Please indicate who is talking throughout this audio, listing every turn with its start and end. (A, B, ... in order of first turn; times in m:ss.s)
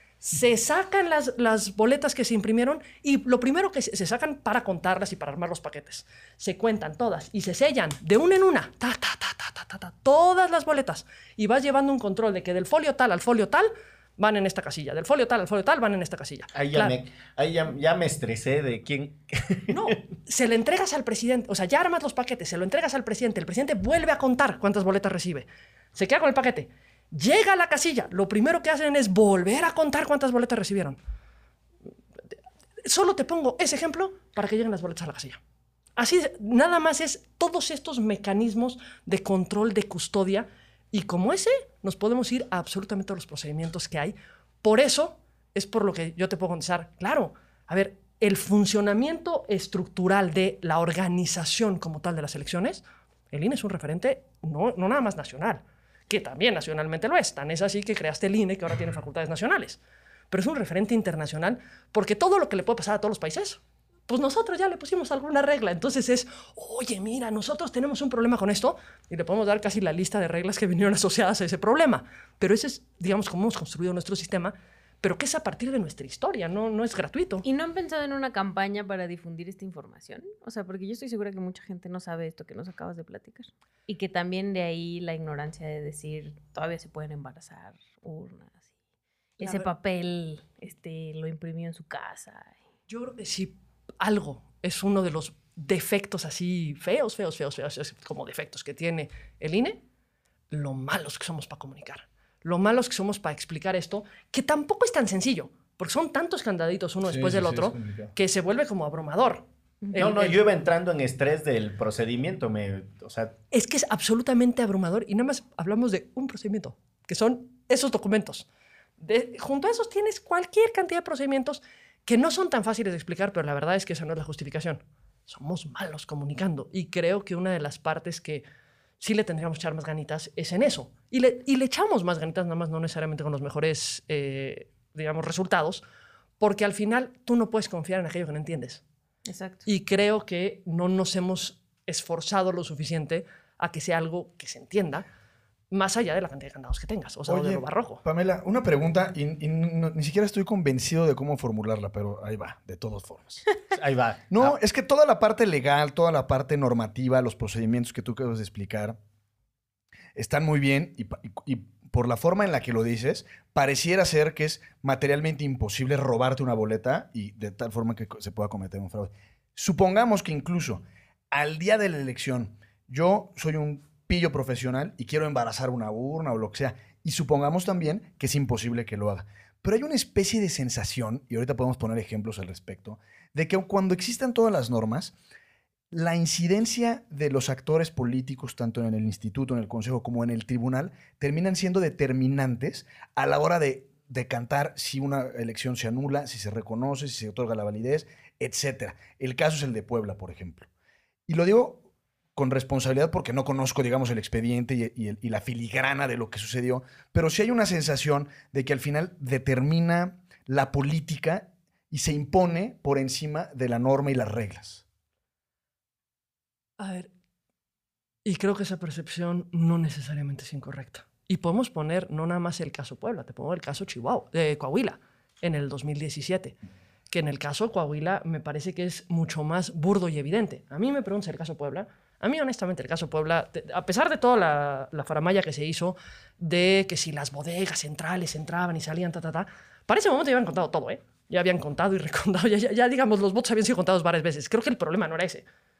0:00.2-0:17.0 A
0:16.5-0:20.0 B
0:19.7-0:31.0 A
0:32.8-0:35.4 A
0:36.0-0:59.8 A
1:00.3-1:17.4 A
1:17.4-1:28.7 C
1:29.4-1:32.6 C
1:29.4-1:29.7 A
1:32.9-1:39.8 A
1:40.5-1:50.4 A
1:47.0-1:48.1 D
1:49.9-1:53.4 B
1:53.5-1:58.5 A
1:59.0-2:08.4 A
2:09.0-2:15.8 A
2:16.4-2:18.8 A
2:19.2-2:19.7 C
2:19.6-2:25.0 A
2:25.7-2:28.0 A
2:27.3-2:33.4 D
2:33.7-2:34.6 B
2:34.3-2:39.0 D
2:40.2-3:05.1 D
3:05.9-3:20.7 D
3:21.3-3:21.8 D
3:22.4-3:34.8 D
3:36.8-3:37.1 A
3:38.2-3:46.6 A
3:47.1-4:05.4 A